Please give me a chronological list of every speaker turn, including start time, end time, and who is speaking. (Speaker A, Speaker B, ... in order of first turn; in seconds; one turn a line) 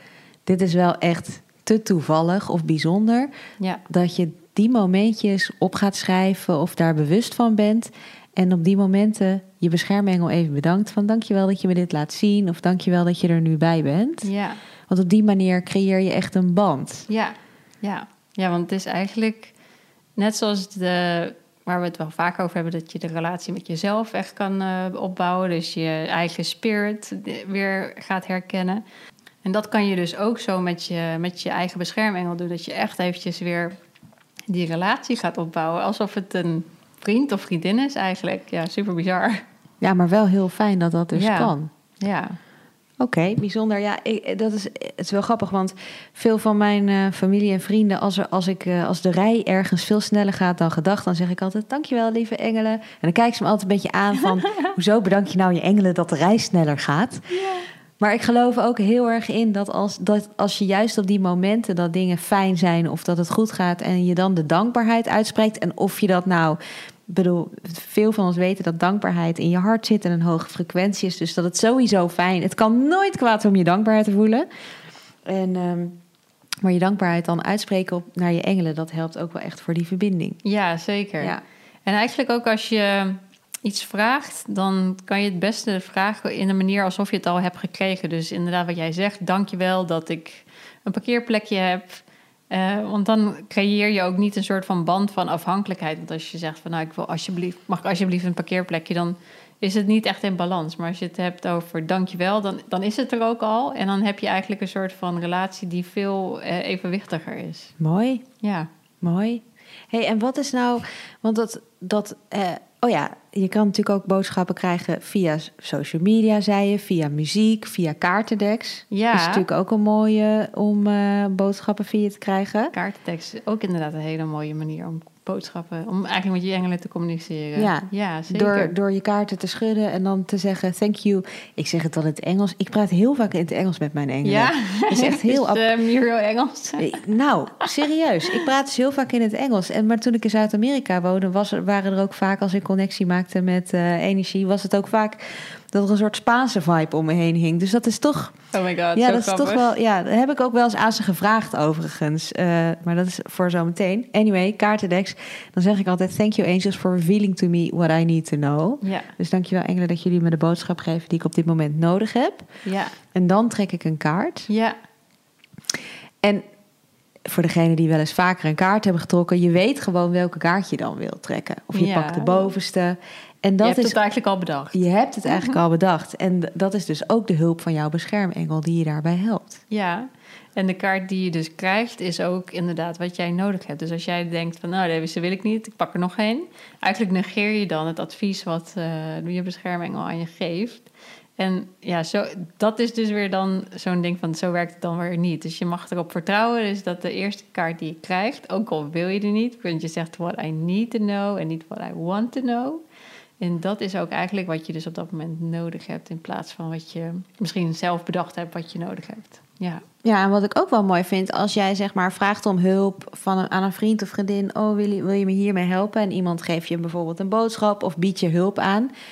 Speaker A: 0.5-3.3
Speaker A: 3.9-14.3
Speaker B: 14.2-14.6
Speaker A: 14.9-17.1
Speaker B: 17.1-19.5
Speaker B: 20.2-28.8
Speaker B: 29.4-33.8
Speaker B: 34.5-39.4
Speaker A: 39.8-41.7
Speaker B: 41.1-42.4
Speaker A: 43.0-57.5
Speaker B: 57.3-57.7
Speaker A: 58.0-74.5
Speaker A: 75.2-76.0
Speaker A: 76.6-80.4
Speaker B: 80.4-81.3
Speaker B: 81.9-107.7
Speaker A: 107.8-108.2
Speaker B: 108.4-108.7
Speaker A: 109.0-122.7
Speaker B: 118.9-119.5
Speaker B: 122.7-128.8
Speaker A: 127.6-135.7
Speaker B: 134.2-136.9
Speaker A: 136.8-148.4
Speaker B: 148.5-149.7
Speaker A: 148.9-162.5
Speaker B: 158.8-159.1
Speaker B: 162.7-163.0
Speaker A: 163.1-164.5
Speaker B: 164.5-164.8
Speaker A: 167.3-174.0
Speaker B: 171.7-172.6
Speaker B: 173.6-175.6
Speaker A: 174.7-179.6
Speaker B: 179.7-202.8
Speaker B: 203.4-209.8
Speaker A: 210.0-218.9